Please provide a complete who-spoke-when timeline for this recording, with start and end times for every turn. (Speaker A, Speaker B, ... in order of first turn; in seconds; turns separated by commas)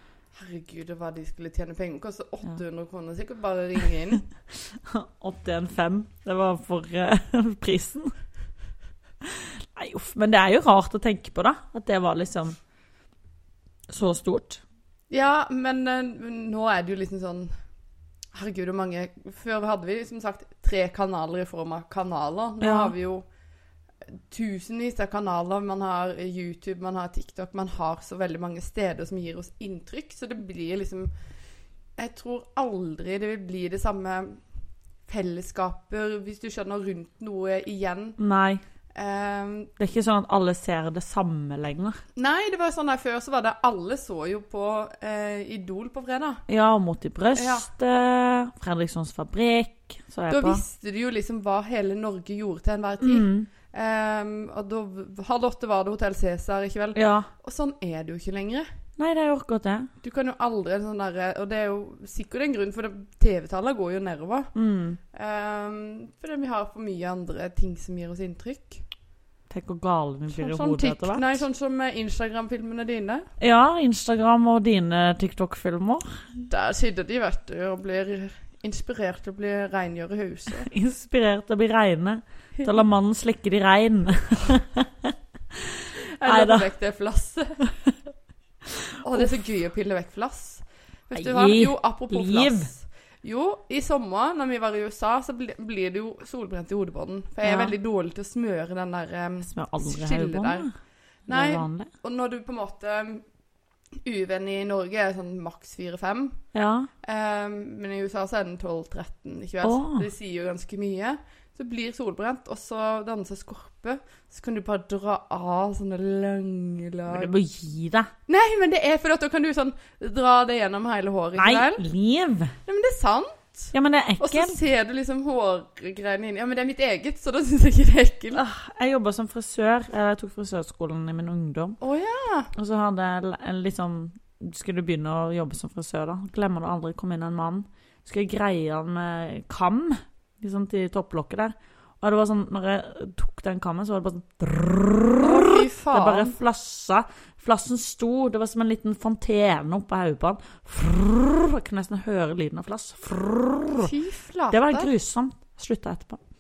Speaker A: 0.3-4.2, Speaker B: 4.7-8.1, Speaker B: 9.2-12.6, Speaker B: 13.9-14.6, Speaker A: 15.1-17.5, Speaker A: 18.3-23.2, Speaker B: 22.6-22.9, Speaker A: 24.3-31.1, Speaker A: 32.0-34.4, Speaker A: 35.1-38.2, Speaker B: 38.2-38.6, Speaker A: 38.9-39.7, Speaker B: 39.8-42.0, Speaker A: 42.1-46.4, Speaker B: 46.5-50.6, Speaker A: 47.3-47.7, Speaker A: 50.3-58.6, Speaker B: 53.0-53.5, Speaker B: 56.9-57.3, Speaker B: 59.0-59.9, Speaker A: 60.0-64.5, Speaker B: 64.5-65.0, Speaker A: 65.1-68.8, Speaker B: 69.5-71.4, Speaker A: 70.3-73.3, Speaker B: 73.4-76.2, Speaker A: 76.5-80.7, Speaker B: 80.6-86.6, Speaker A: 86.0-87.6, Speaker A: 89.0-100.7, Speaker B: 91.1-92.7, Speaker B: 97.4-97.7, Speaker B: 99.4-100.7, Speaker B: 101.3-101.9, Speaker A: 101.3-103.2, Speaker A: 104.0-106.4, Speaker B: 106.5-106.9, Speaker A: 107.0-117.3, Speaker B: 109.6-110.1, Speaker B: 117.1-118.1, Speaker A: 118.3-121.8, Speaker B: 121.3-122.5, Speaker A: 122.7-128.4, Speaker B: 123.7-124.6, Speaker B: 128.3-131.8, Speaker A: 131.8-132.5, Speaker B: 132.5-153.9, Speaker A: 145.2-146.3, Speaker A: 153.8-154.9, Speaker B: 154.5-156.2